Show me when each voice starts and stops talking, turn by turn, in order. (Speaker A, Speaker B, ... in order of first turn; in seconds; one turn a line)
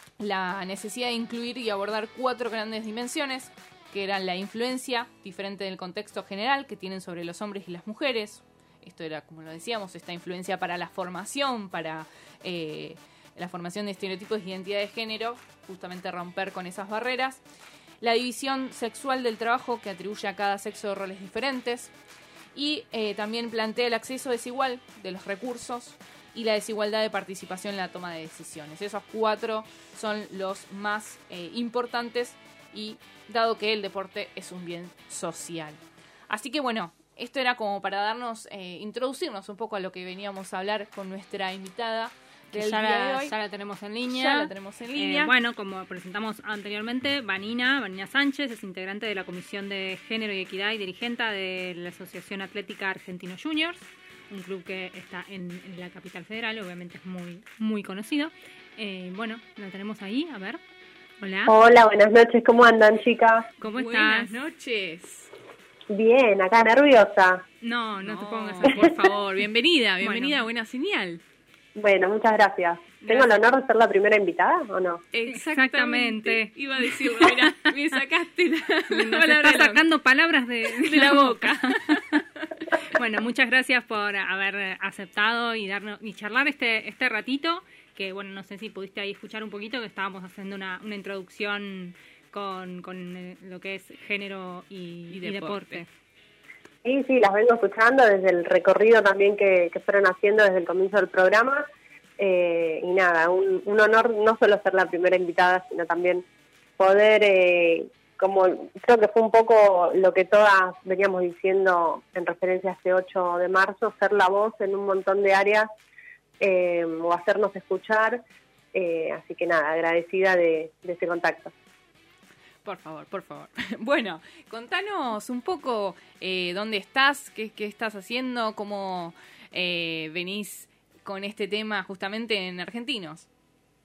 Speaker A: 0.2-17.4
Speaker A: 18.0-21.9
Speaker A: 22.5-43.3
Speaker B: 42.5-60.6
Speaker A: 44.1-45.3
Speaker B: 61.2-61.5
Speaker C: 61.5-63.5
Speaker B: 63.6-64.4
Speaker A: 63.6-65.3
Speaker C: 65.9-67.4
Speaker B: 67.6-69.1
Speaker A: 68.0-71.2
Speaker B: 70.0-70.4
Speaker C: 71.8-75.0
Speaker A: 75.1-79.8
Speaker B: 75.3-77.8
Speaker B: 78.9-82.2
Speaker A: 80.6-82.1
Speaker B: 82.9-95.9
Speaker A: 95.1-95.8
Speaker C: 96.8-101.7
Speaker C: 102.2-106.2
Speaker C: 106.8-115.7
Speaker C: 116.4-118.2
Speaker C: 118.7-121.5
Speaker A: 122.6-133.3